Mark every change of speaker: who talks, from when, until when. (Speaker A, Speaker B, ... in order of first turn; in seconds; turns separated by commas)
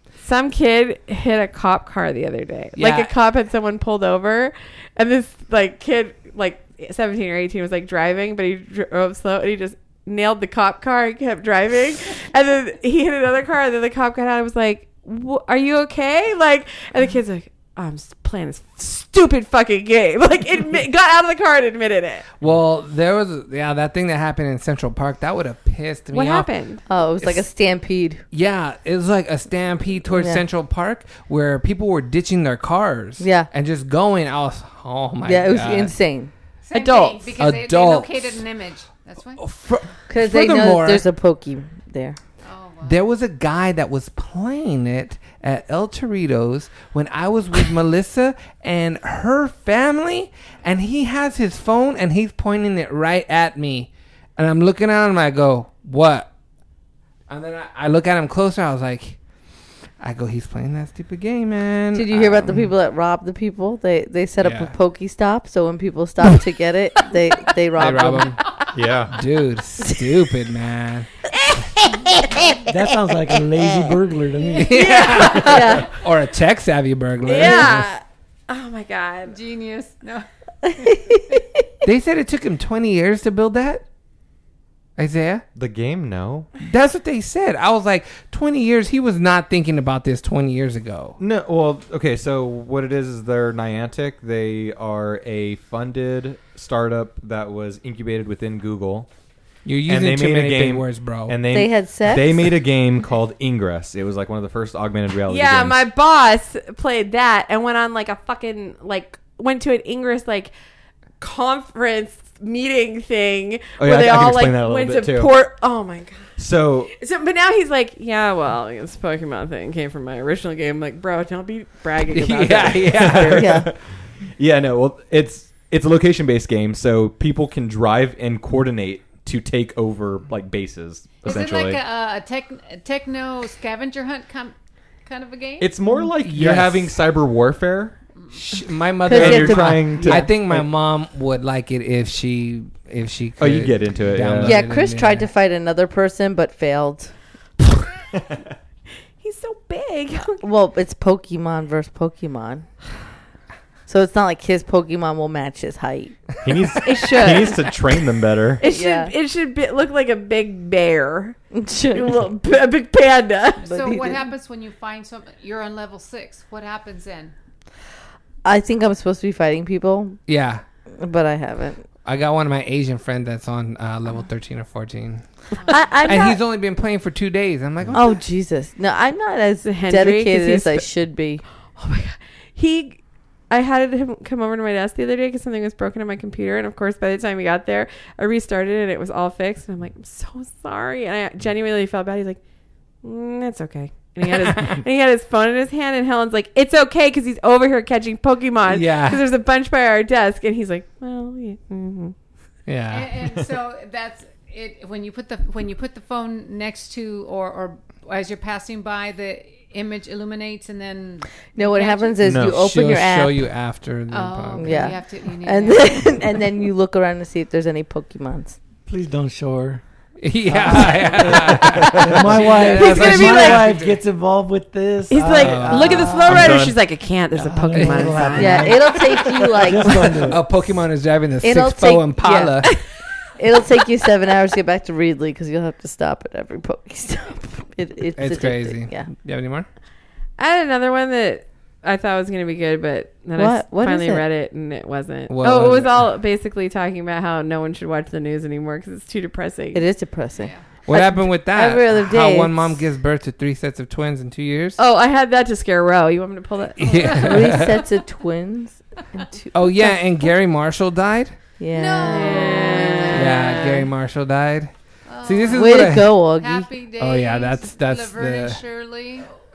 Speaker A: 0.2-22.3, Speaker B: 2.8-3.1, Speaker B: 22.4-26.5, Speaker A: 26.1-26.8, Speaker C: 26.9-28.2, Speaker B: 28.3-35.9, Speaker C: 30.1-30.4, Speaker C: 33.2-33.5, Speaker C: 35.2-36.3, Speaker D: 36.6-39.4, Speaker A: 36.7-37.3, Speaker B: 37.4-38.4, Speaker B: 39.4-41.0, Speaker C: 40.1-42.2, Speaker D: 42.4-43.0, Speaker B: 42.8-56.3, Speaker B: 57.3-59.2, Speaker B: 60.0-62.7, Speaker C: 61.9-68.4, Speaker B: 64.4-64.7, Speaker B: 67.8-68.6, Speaker E: 68.7-69.2, Speaker B: 69.1-71.1, Speaker C: 71.8-72.8, Speaker F: 72.7-74.8, Speaker C: 73.7-74.0, Speaker B: 74.5-77.9, Speaker A: 74.7-75.5, Speaker D: 75.0-75.5, Speaker C: 75.4-76.0, Speaker A: 77.3-79.4, Speaker C: 77.4-77.7, Speaker D: 79.3-81.2, Speaker C: 80.7-81.7, Speaker B: 81.8-83.8, Speaker B: 85.0-85.4, Speaker E: 85.6-86.5, Speaker B: 86.6-91.2, Speaker E: 91.2-99.1, Speaker B: 99.7-101.4, Speaker E: 99.9-105.8, Speaker C: 101.5-102.5, Speaker A: 105.3-110.5, Speaker A: 111.2-116.4, Speaker E: 113.8-115.3, Speaker E: 116.4-116.9, Speaker A: 116.9-123.5, Speaker B: 122.1-123.6, Speaker C: 123.4-123.7, Speaker E: 123.4-123.7, Speaker E: 124.4-131.8, Speaker D: 131.2-135.8, Speaker E: 135.6-137.9, Speaker B: 136.2-137.0, Speaker B: 138.3-145.3, Speaker C: 139.1-140.3, Speaker E: 139.1-140.7, Speaker E: 143.4-144.6, Speaker C: 144.4-147.1, Speaker A: 149.2-150.4, Speaker C: 150.4-152.7, Speaker C: 153.9-156.3, Speaker E: 156.4-158.6, Speaker A: 156.8-157.8, Speaker A: 158.6-161.4, Speaker C: 158.6-159.1, Speaker C: 161.5-162.3, Speaker A: 161.9-163.7, Speaker D: 163.6-167.3, Speaker C: 163.7-164.3, Speaker C: 168.4-170.2, Speaker B: 170.3-170.6, Speaker C: 171.0-171.8, Speaker B: 172.1-175.4, Speaker D: 175.6-175.8, Speaker C: 175.7-176.4, Speaker B: 176.0-178.2, Speaker C: 177.9-181.4, Speaker A: 179.6-180.9, Speaker A: 181.8-192.4, Speaker A: 193.0-202.2, Speaker B: 198.7-199.2, Speaker B: 202.7-203.2, Speaker D: 202.9-212.2, Speaker C: 211.6-213.5, Speaker E: 212.2-212.6, Speaker B: 212.4-214.9, Speaker D: 214.1-216.1, Speaker C: 214.6-218.6, Speaker F: 218.9-219.8, Speaker B: 220.2-224.0, Speaker F: 220.5-225.5, Speaker E: 221.7-222.1, Speaker A: 222.5-223.8, Speaker A: 225.1-229.0, Speaker C: 225.2-226.4, Speaker B: 225.4-226.2, Speaker E: 226.2-226.8, Speaker F: 227.3-230.4, Speaker B: 227.8-228.2, Speaker C: 228.3-230.2, Speaker B: 230.1-232.7, Speaker C: 231.4-232.8, Speaker C: 233.4-239.1, Speaker B: 238.2-239.7, Speaker A: 240.4-249.8, Speaker C: 243.3-244.2, Speaker B: 245.3-246.1, Speaker C: 249.7-252.8, Speaker B: 250.9-254.8, Speaker A: 254.8-257.5, Speaker B: 256.8-257.8, Speaker C: 257.2-260.3, Speaker D: 257.3-257.9, Speaker B: 259.5-261.4, Speaker C: 261.6-263.1, Speaker D: 261.8-263.1, Speaker A: 262.0-263.9, Speaker B: 263.1-264.7, Speaker D: 265.1-269.3, Speaker B: 265.2-266.1, Speaker C: 265.5-266.7, Speaker B: 267.0-268.6